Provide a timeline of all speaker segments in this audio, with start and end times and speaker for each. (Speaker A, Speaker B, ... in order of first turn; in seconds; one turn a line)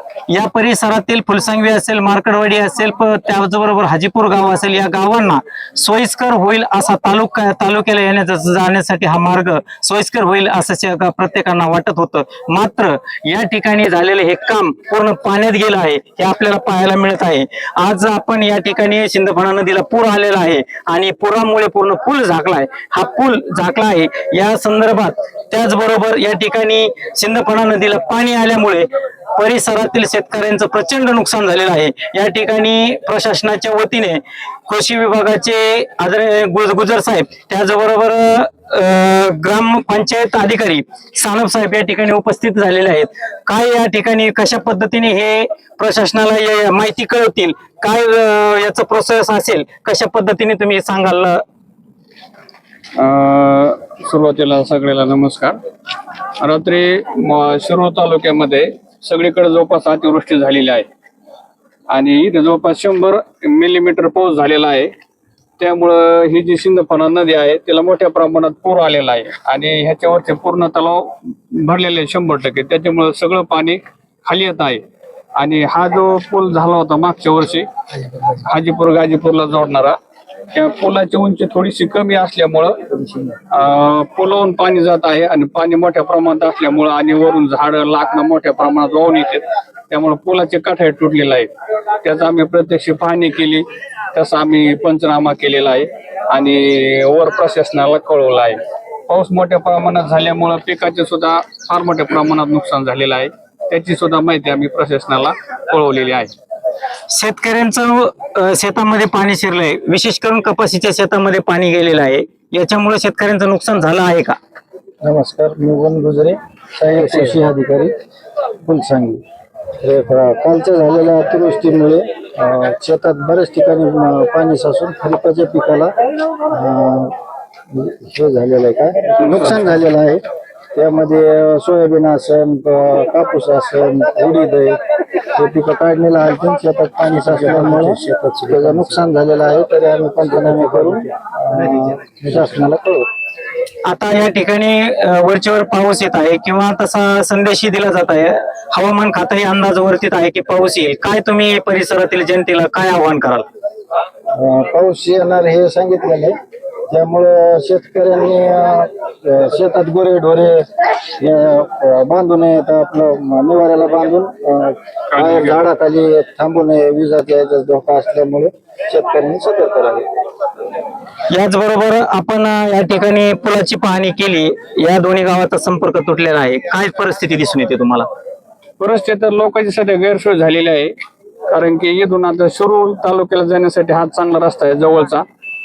Speaker A: 0.3-51.4
Speaker B: 53.0-55.6
Speaker B: 56.4-60.9
Speaker B: 61.9-64.9
Speaker B: 65.6-74.8
Speaker B: 75.4-77.7
Speaker B: 78.4-80.0
Speaker B: 80.5-82.9
Speaker B: 83.5-91.5
Speaker B: 92.0-106.3
Speaker A: 107.1-114.4
Speaker C: 115.0-117.9
Speaker C: 118.6-119.2
Speaker C: 119.8-125.9
Speaker C: 126.5-127.1
Speaker C: 127.7-130.2
Speaker C: 130.7-134.8
Speaker C: 135.3-143.1
Speaker A: 143.8-153.4
Speaker C: 154.3-156.3
Speaker C: 156.9-160.7
Speaker C: 161.2-170.1
Speaker B: 165.1-165.6
Speaker A: 171.3-178.1
Speaker B: 178.8-180.9
Speaker B: 181.5-185.2